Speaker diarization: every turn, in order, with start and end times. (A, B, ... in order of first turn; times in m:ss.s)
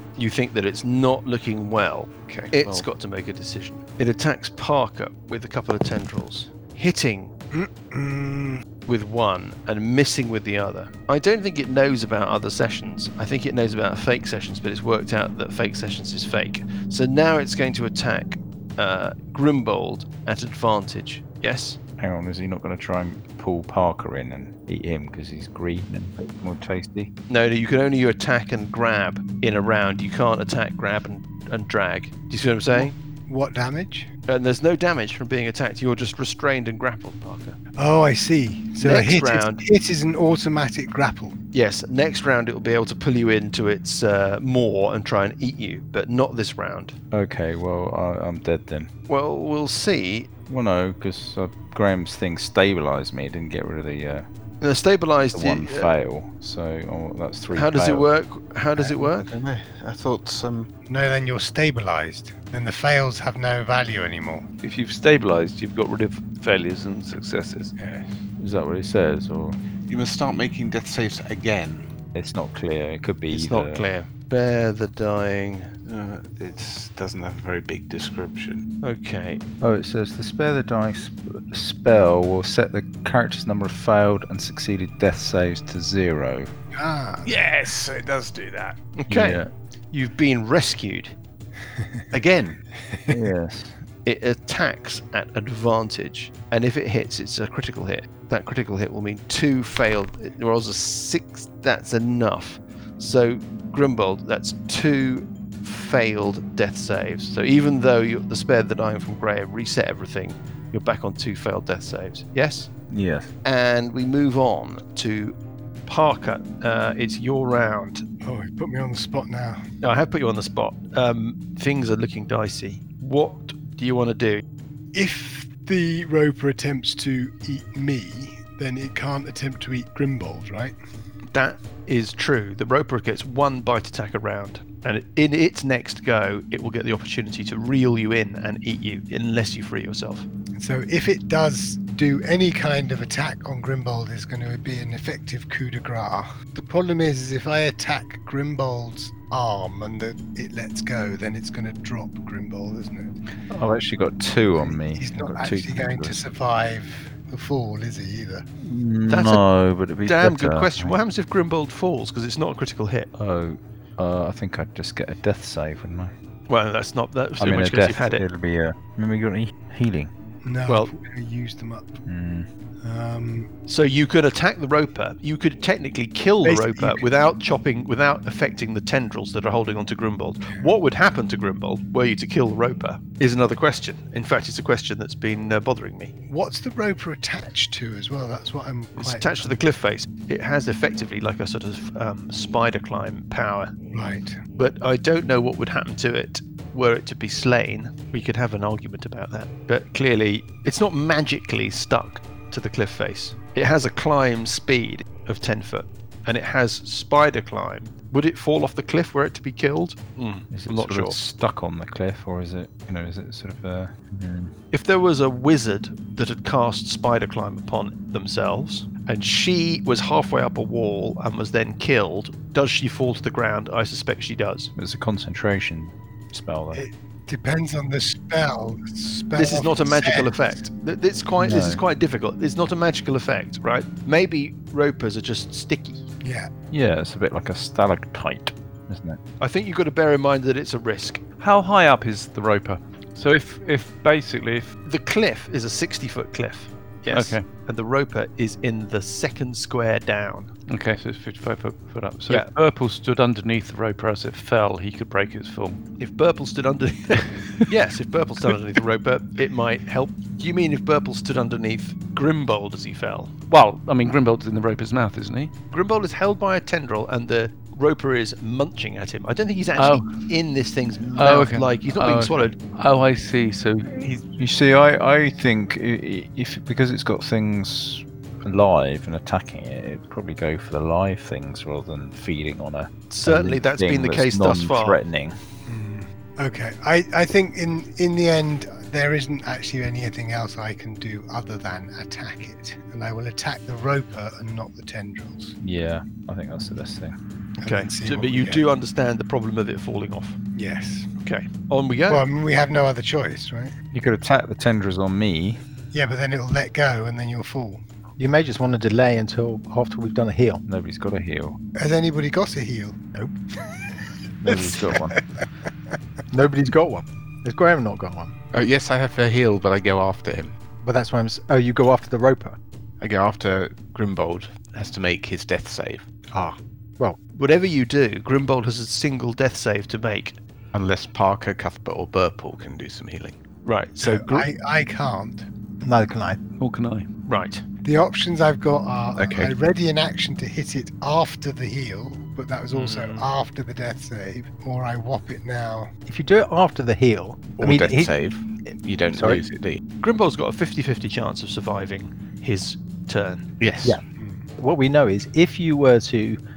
0:00.2-0:07.3 A
0:02.3-0:02.9 B
0:07.5-0:08.6 C
0:08.8-0:21.8 A
0:22.0-0:27.1 D
0:27.3-0:32.9 A
0:32.7-0:34.1 C
0:34.3-0:37.6 A
0:37.8-0:41.4 C
0:38.8-0:39.6 A
0:41.5-0:46.9 A
0:47.1-0:48.9 D
0:49.1-0:50.3 A
0:50.5-0:54.3 D
0:54.6-0:55.9 A
0:55.3-0:58.1 D
0:57.5-0:59.2 A
0:58.8-1:00.7 B
1:00.9-1:04.5 C
1:04.6-1:07.7 E
1:07.8-1:08.1 B
1:08.4-1:09.6 D
1:09.9-1:11.9 B
1:12.1-1:13.9 D
1:13.3-1:15.7 A
1:15.8-1:18.6 B
1:18.8-1:19.4 A
1:19.6-1:26.5 D
1:26.7-1:27.3 C
1:27.2-1:28.8 B
1:29.0-1:31.1 A
1:29.1-1:29.5 D
1:32.1-1:32.6 B
1:32.9-1:33.2 C
1:33.1-1:33.8 D
1:34.0-1:52.7 A
1:52.9-1:53.3 D
1:53.4-1:55.3 A
1:55.8-1:58.0 A
1:58.2-1:59.6 C
1:59.8-2:04.4 A
2:04.9-2:10.8 C
2:11.3-2:20.3 A
2:20.5-2:33.1 C
2:33.5-2:36.2 D
2:34.6-2:38.4 C
2:38.6-2:40.9 D
2:39.1-2:39.4 A
2:40.0-2:43.1 A
2:43.2-2:46.1 D
2:46.5-2:48.2 A
2:47.4-2:50.1 D
2:50.4-2:52.0 C
2:50.7-2:50.9 A
2:52.0-2:52.5 D
2:52.8-2:53.5 C
2:53.7-3:06.1 A
2:56.4-2:57.0 C
3:06.3-3:09.5 C
3:09.0-3:13.7 A
3:13.9-3:14.4 C
3:14.6-3:31.2 A
3:30.5-3:34.5 D
3:34.7-3:44.7 A
3:44.8-3:46.8 D
3:46.7-3:50.6 C
3:49.3-3:56.0 A
3:51.4-3:51.8 D
3:56.2-3:56.5 C
3:56.7-3:59.2 D
3:59.4-4:01.2 A
4:01.4-4:04.7 E
4:04.8-4:10.5 A
4:07.1-4:07.5 E
4:10.7-4:15.8 E
4:16.0-4:23.4 A
4:17.4-4:17.7 E
4:23.5-4:25.5 E
4:25.7-4:32.6 A
4:29.8-4:30.1 E
4:31.2-4:34.2 E
4:34.3-4:45.4 D
4:43.1-4:45.0 A
4:45.7-4:55.5 C
4:55.6-4:57.2 D
4:57.6-4:58.6 C
4:57.6-5:00.4 A
5:00.5-5:01.1 C
5:01.2-5:02.2 A
5:02.1-5:03.7 C
5:03.9-5:05.6 D
5:05.9-5:07.8 C
5:08.2-5:10.6 F
5:10.7-5:11.6 D
5:11.8-5:13.0 C
5:14.4-5:15.2 D
5:14.5-5:15.2 C
5:16.3-5:18.3 F
5:18.5-5:20.5 B
5:20.8-5:22.6 F
5:23.0-5:26.1 B
5:26.3-5:27.2 F
5:27.3-5:30.4 A
5:30.7-5:33.4 B
5:33.6-5:34.5 A
5:34.0-5:35.5 C
5:35.8-5:36.4 F
5:36.6-5:37.1 E
5:37.3-5:37.6 A
5:37.8-5:45.9 C
5:39.2-5:39.5 B
5:42.7-5:43.3 A
5:46.1-5:48.1 F
5:47.6-5:49.8 B
5:49.1-5:49.4 F
5:50.0-5:53.4 A
5:53.6-5:54.0 B
5:54.1-5:54.5 C
5:54.6-5:56.4 F